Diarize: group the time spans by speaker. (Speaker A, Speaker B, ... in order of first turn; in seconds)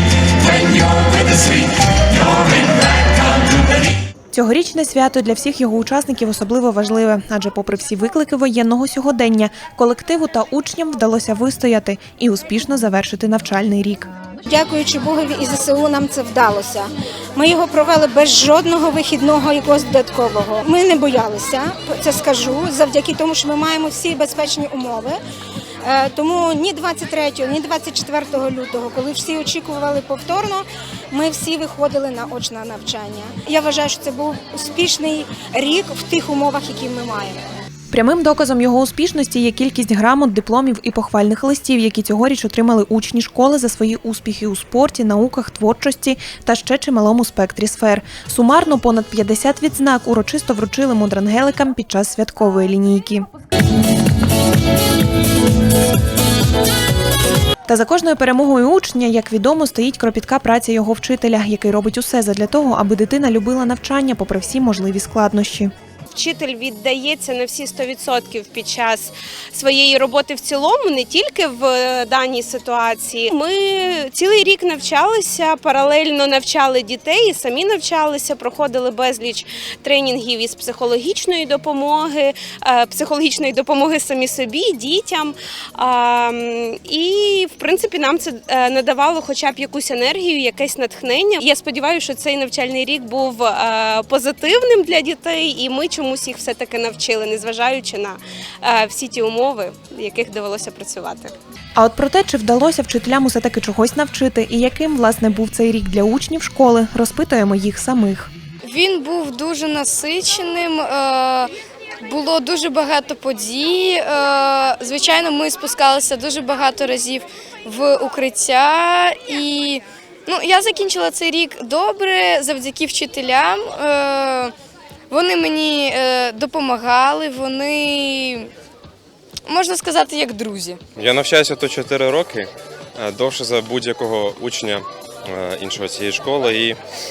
Speaker A: 4.3-14.1, 37.9-53.2, 57.6-65.7, 101.8-108.3
Speaker B: 14.4-25.2, 25.8-37.5
Speaker C: 66.1-101.3
Speaker D: 108.6-111.5, 112.0-124.5, 125.1-128.5, 129.4-130.8
Speaker E: 130.9-136.8